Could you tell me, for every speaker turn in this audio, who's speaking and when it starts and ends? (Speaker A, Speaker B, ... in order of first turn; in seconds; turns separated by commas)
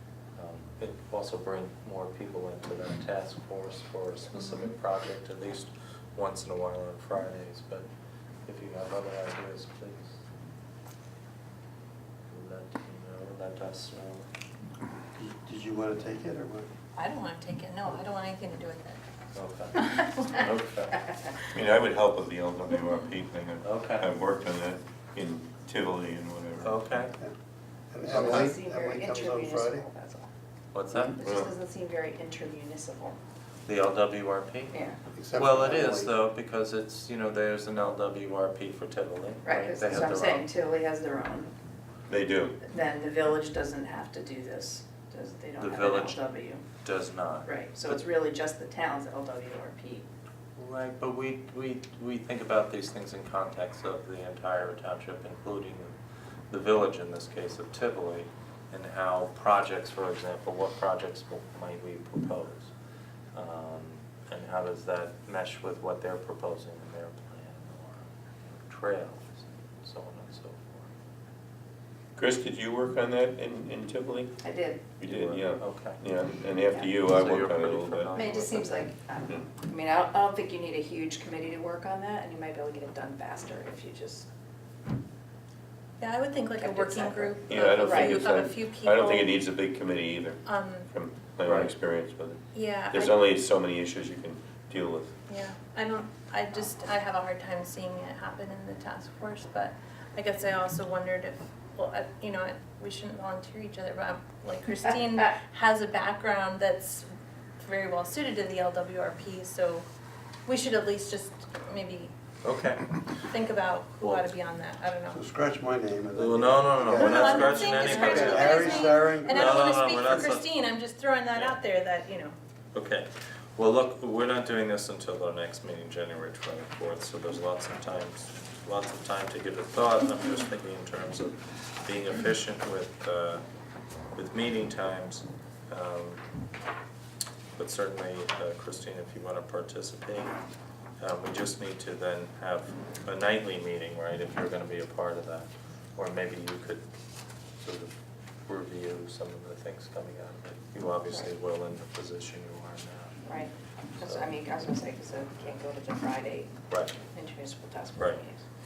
Speaker A: 0.3-7.9, Speaker B: 4.4-4.7, Speaker A: 8.4-10.2, Speaker A: 12.3-14.3, Speaker C: 15.2-16.7, Speaker B: 16.9-19.0, Speaker A: 19.3-21.0, Speaker B: 19.8-20.1, Speaker D: 21.5-26.8, Speaker A: 23.6-24.1, Speaker A: 26.6-27.1, Speaker C: 27.9-29.9, Speaker E: 28.1-30.3, Speaker D: 28.2-28.5, Speaker A: 30.7-31.2, Speaker E: 31.0-33.2, Speaker D: 31.1-31.5, Speaker A: 33.7-34.8, Speaker E: 34.7-35.0, Speaker C: 35.1-36.1, Speaker A: 35.3-40.5, Speaker E: 39.4-41.5, Speaker D: 42.1-42.5, Speaker E: 42.7-46.6, Speaker A: 45.6-46.2, Speaker A: 46.8-47.5, Speaker E: 47.5-50.0, Speaker A: 50.5-55.9, Speaker A: 56.5-62.7, Speaker A: 63.3-70.9, Speaker D: 72.2-74.3, Speaker E: 74.4-74.9, Speaker D: 75.0-78.1, Speaker A: 75.0-76.0, Speaker A: 77.0-78.9, Speaker E: 78.1-84.3, Speaker B: 86.0-89.3, Speaker E: 86.6-88.3, Speaker D: 87.5-95.2, Speaker B: 90.4-90.9, Speaker A: 91.4-91.7, Speaker B: 92.5-93.2, Speaker B: 95.3-107.1, Speaker B: 107.6-109.8, Speaker B: 110.5-112.1, Speaker A: 112.4-113.0, Speaker B: 113.3-115.2, Speaker A: 114.0-114.2, Speaker C: 115.1-119.8, Speaker A: 116.2-120.5, Speaker B: 116.9-122.3, Speaker A: 121.3-121.6, Speaker A: 122.7-133.4, Speaker A: 134.1-136.2, Speaker A: 137.6-140.3, Speaker A: 141.0-146.8, Speaker A: 147.6-147.9, Speaker A: 148.4-153.2, Speaker E: 153.2-156.5, Speaker A: 154.0-154.3, Speaker A: 156.7-157.0, Speaker E: 157.1-158.4, Speaker A: 158.0-158.2